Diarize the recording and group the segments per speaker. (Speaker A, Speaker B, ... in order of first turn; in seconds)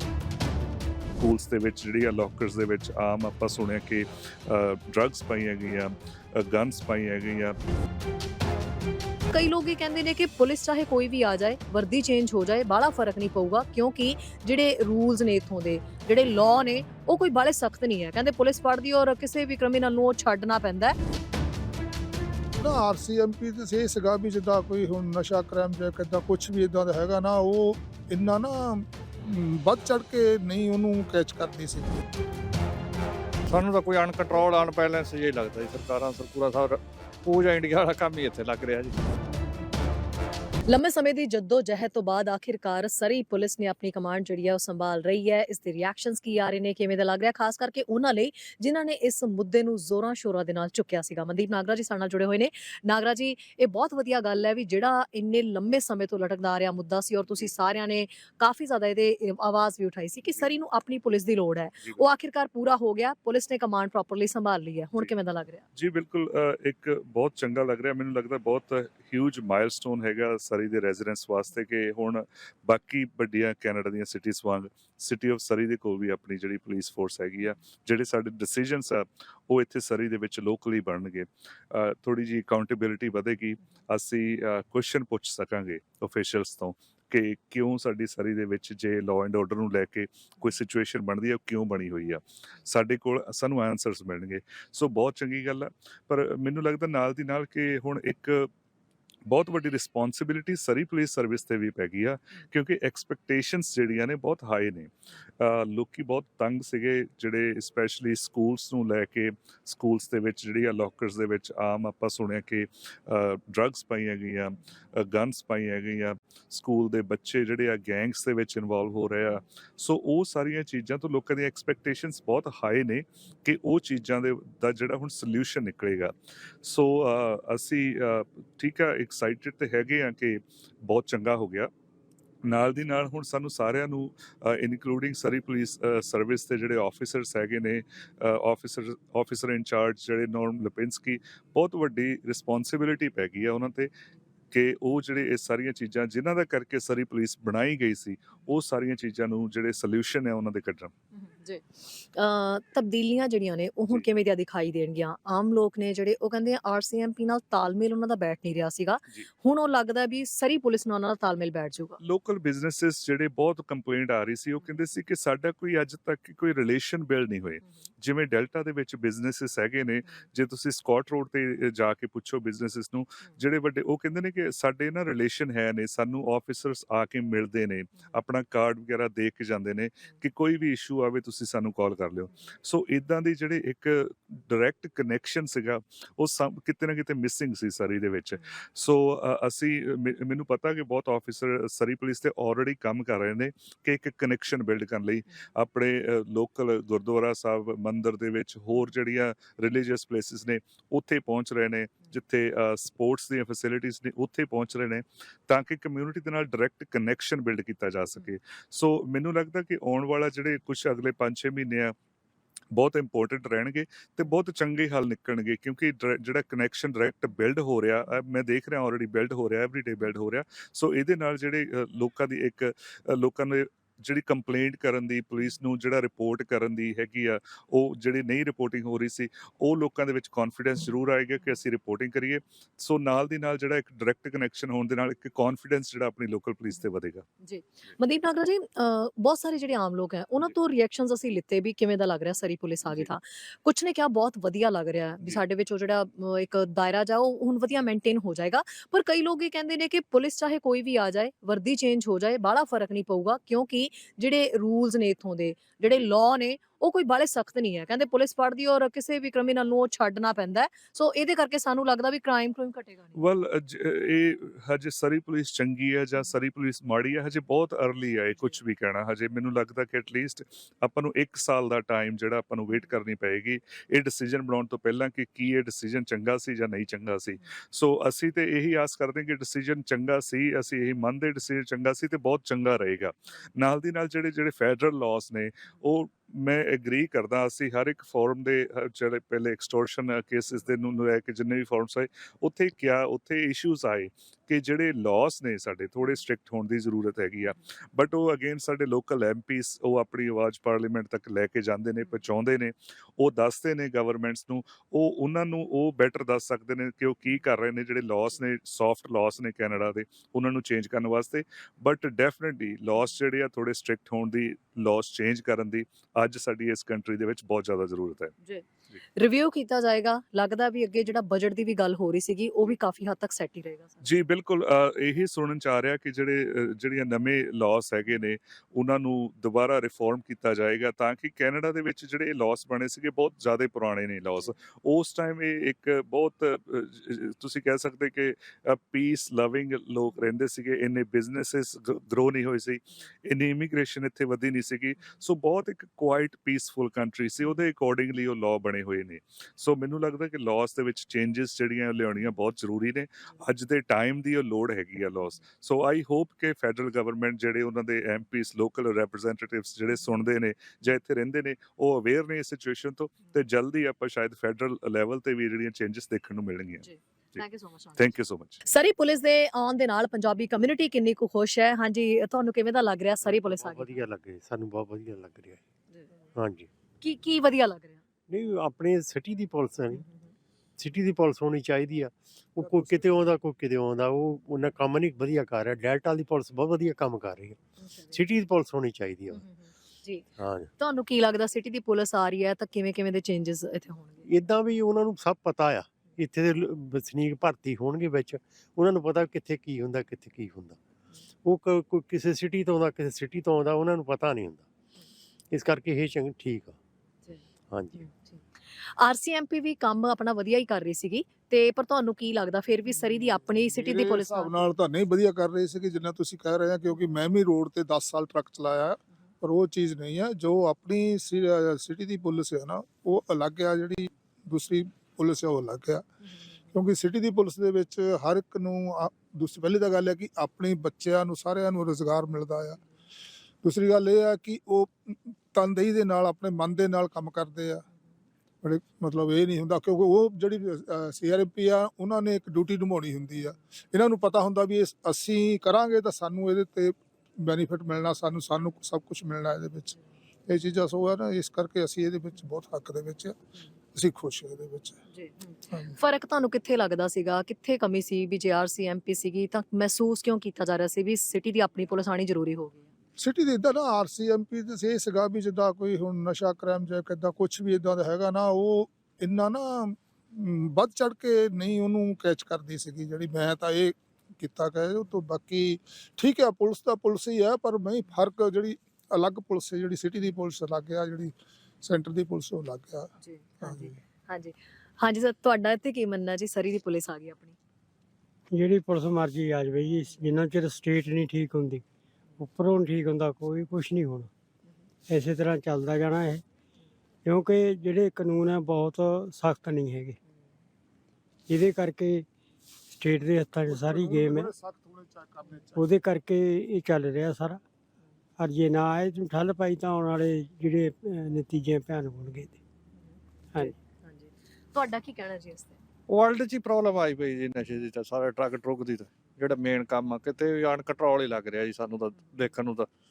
Speaker A: 1.2-7.6, 65.8-98.5, 99.3-131.7, 132.4-143.9, 144.5-150.9, 162.0-211.9, 212.7-237.2, 263.2-318.3, 324.0-366.9, 368.0-368.6
Speaker B: 9.3-20.9, 40.7-65.6, 151.2-162.0, 237.4-263.2, 319.2-324.0, 366.8-368.1, 368.7-374.0, 377.0-378.0, 379.9-380.3, 387.8-388.2, 389.4-390.3, 390.8-394.3, 408.0-414.7, 455.1-462.9, 483.2-487.6, 513.1-515.8
Speaker C: 22.6-32.0, 382.6-383.2, 413.7-426.0, 426.7-432.8, 433.6-437.9, 438.6-449.9, 450.5-453.4, 453.9-455.0, 463.2-483.1, 483.6-483.9, 503.7-505.8
Speaker D: 33.5-39.0, 516.1-522.9
Speaker E: 373.2-375.6, 376.4-376.7, 378.3-380.1, 380.8-387.6, 388.1-389.4, 390.4-390.7, 394.3-400.8, 401.4-404.7, 405.5-406.8, 407.7-408.1
Speaker F: 488.5-491.8, 492.4-494.3, 495.1-496.4, 497.2-500.2, 501.5-502.3, 502.9-504.5, 505.8-507.6, 508.4-512.6